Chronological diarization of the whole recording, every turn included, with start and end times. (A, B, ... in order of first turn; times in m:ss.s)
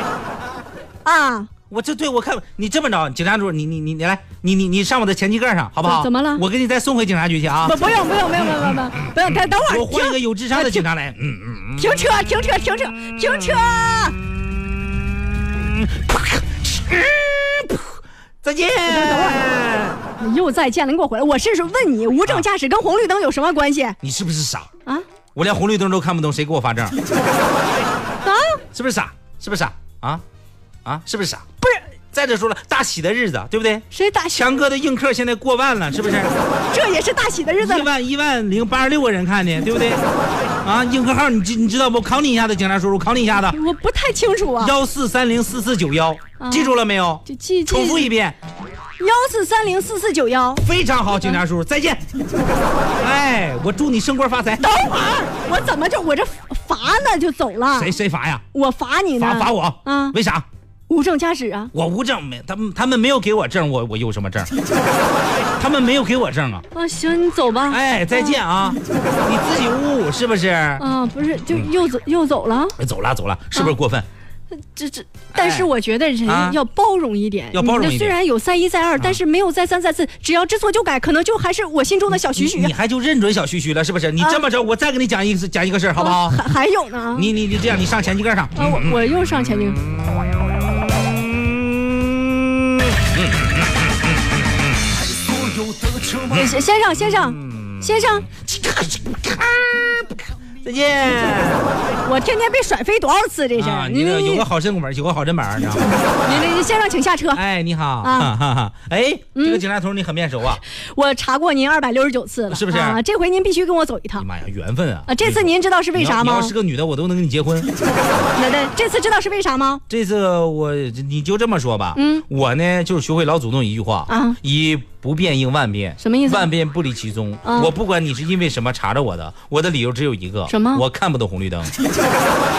0:01.0-0:01.5 A
0:01.7-0:07.8 B
0:05.8-0:06.4 A
0:07.6-0:10.8 A
0:08.4-0:12.1 B
0:11.8-0:14.2 A
0:15.6-0:20.0 B
0:18.9-0:19.4 A
0:20.2-0:24.0 A
0:24.0-0:24.7 B
0:25.4-0:27.0 B
0:28.2-0:28.6 A
0:28.7-0:30.2 B
0:30.8-0:36.3 B
0:33.9-0:34.6 A
0:36.7-0:37.9 A
0:37.6-0:40.0 B
0:40.6-0:43.6 B
0:43.5-0:44.7 A
0:44.6-0:48.4 B
0:46.4-0:48.1 A
0:49.0-0:50.7 A
0:50.6-0:52.1 B
0:53.0-0:54.7 B
0:54.6-0:58.0 A
0:57.7-0:58.4 B
0:58.5-1:00.2 A
0:59.2-1:00.5 B
1:00.9-1:01.7 A
1:01.7-1:04.5 B
1:05.6-1:06.6 B
1:06.7-1:08.4 A
1:07.7-1:10.8 B
1:10.8-1:12.8 A
1:12.8-1:14.0 B
1:14.7-1:22.7 A
1:15.3-1:15.7 B
1:16.3-1:16.6 B
1:17.5-1:18.2 B
1:22.4-1:26.5 B
1:26.0-1:27.3 A
1:27.2-1:29.0 B
1:28.6-1:29.8 A
1:31.1-1:33.6 B
1:35.0-1:36.6 B
1:36.3-1:38.3 A
1:37.3-1:41.8 B
1:42.0-1:44.5 A
1:43.6-1:46.5 B
1:45.8-1:47.4 A
1:47.3-1:50.6 B
1:48.0-1:48.3 A
1:49.4-1:49.6 A
1:50.6-1:54.3 A
1:52.5-1:53.0 B
1:54.2-1:57.7 B
1:55.1-1:56.5 A
1:58.3-1:59.8 A
1:59.9-2:11.7 B
2:02.0-2:02.2 A
2:04.1-2:04.4 A
2:06.0-2:06.5 A
2:07.4-2:07.7 A
2:10.5-2:10.8 A